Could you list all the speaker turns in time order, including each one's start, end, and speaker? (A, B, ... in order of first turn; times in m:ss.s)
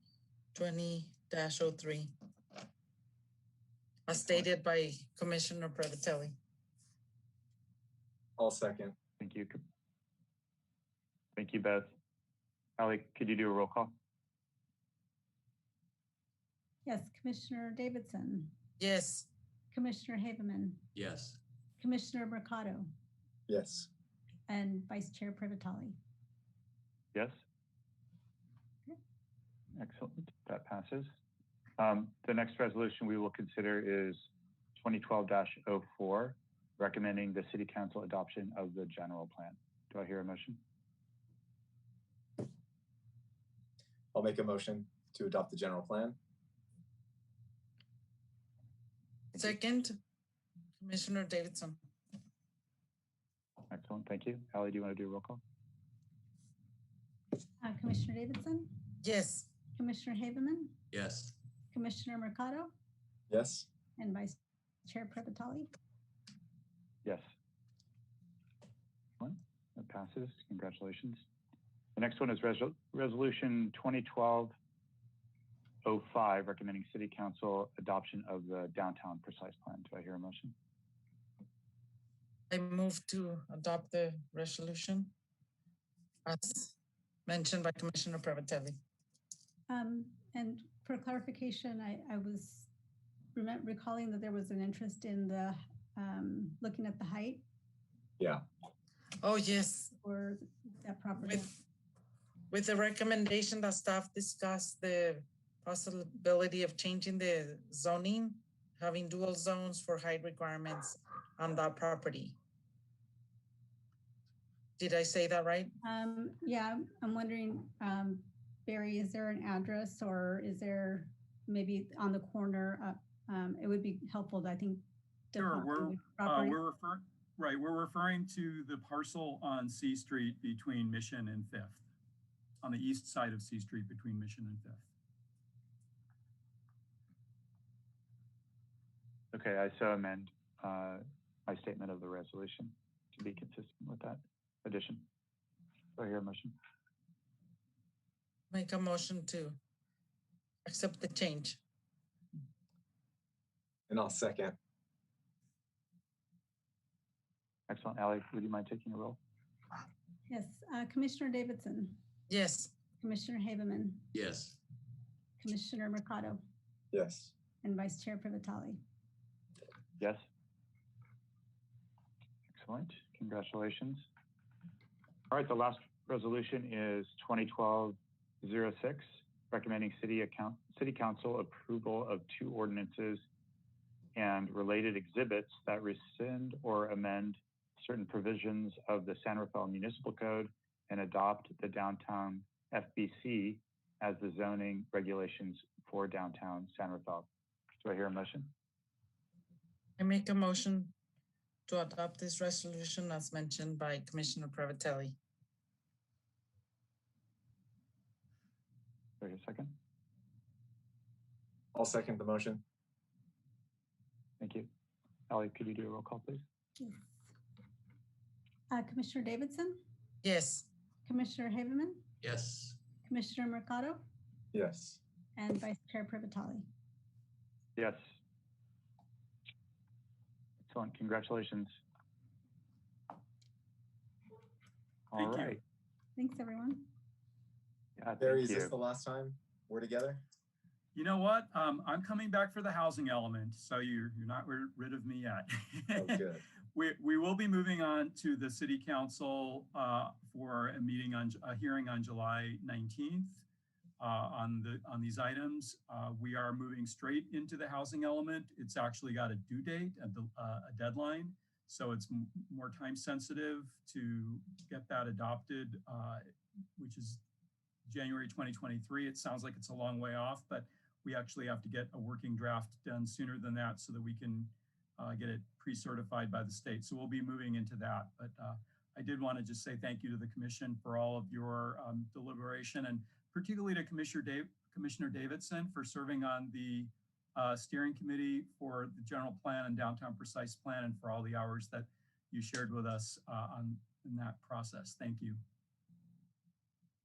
0:00.5-0:02.1 A
0:04.1-0:06.4 A
0:08.4-0:09.0 B
0:09.2-0:09.6 C
0:11.4-0:11.9 C
0:12.8-0:13.9 C
0:16.8-0:18.5 D
0:18.8-0:19.3 A
0:19.7-0:20.9 D
0:20.9-0:21.4 E
0:21.8-0:22.9 D
0:23.5-0:23.9 B
0:24.5-0:26.0 D
0:29.8-0:31.0 C
0:31.8-0:34.2 C
0:34.8-0:40.6 C
0:44.1-0:46.2 B
0:49.3-0:50.0 A
0:50.8-0:51.8 A
0:53.7-0:55.4 C
0:57.6-0:58.9 D
0:59.0-0:59.5 A
0:59.7-1:00.8 D
1:00.9-1:01.4 E
1:01.7-1:02.7 D
1:03.3-1:03.7 B
1:04.0-1:05.7 D
1:09.2-1:11.2 C
1:12.0-1:14.5 C
1:15.8-1:20.5 C
1:22.5-1:25.1 A
1:26.2-1:26.7 A
1:27.3-1:28.8 A
1:29.7-1:32.7 D
1:33.3-1:37.4 D
1:39.2-1:39.9 A
1:39.9-1:41.5 D
1:42.5-1:52.4 A
1:54.8-1:55.7 A
1:55.8-2:06.6 D
2:05.4-2:11.8 F
2:12.6-2:14.8 F
2:19.3-2:25.1 C
2:26.0-2:26.6 C
2:28.5-2:29.6 A
2:30.6-2:31.6 A
2:33.9-2:34.6 B
2:37.7-2:39.2 C
2:40.3-2:42.0 D
2:42.3-2:42.7 A
2:43.0-2:44.1 D
2:44.1-2:44.6 E
2:45.4-2:46.4 D
2:46.9-2:47.3 B
2:47.6-2:48.8 D
2:52.5-2:54.0 C
2:55.3-3:03.2 C
3:04.2-3:17.3 C
3:17.8-3:18.5 C
3:20.0-3:20.9 A
3:21.7-3:25.2 A
3:29.2-3:29.8 C
3:31.7-3:32.6 B
3:34.4-3:34.7 C
3:35.3-3:36.4 C
3:36.8-3:37.1 D
3:38.7-3:39.8 D
3:40.2-3:40.7 A
3:41.0-3:42.0 D
3:42.2-3:42.8 E
3:43.0-3:44.0 D
3:44.5-3:45.0 B
3:45.4-3:46.7 D
3:50.7-3:51.7 C
3:55.1-3:55.6 C
3:55.2-3:55.6 F
3:56.2-3:56.9 D
3:58.0-3:58.8 C
3:58.2-4:00.2 B
4:01.0-4:06.2 F
4:06.0-4:06.4 B
4:06.8-4:13.4 F
4:14.0-4:27.2 F
4:27.9-4:55.4 F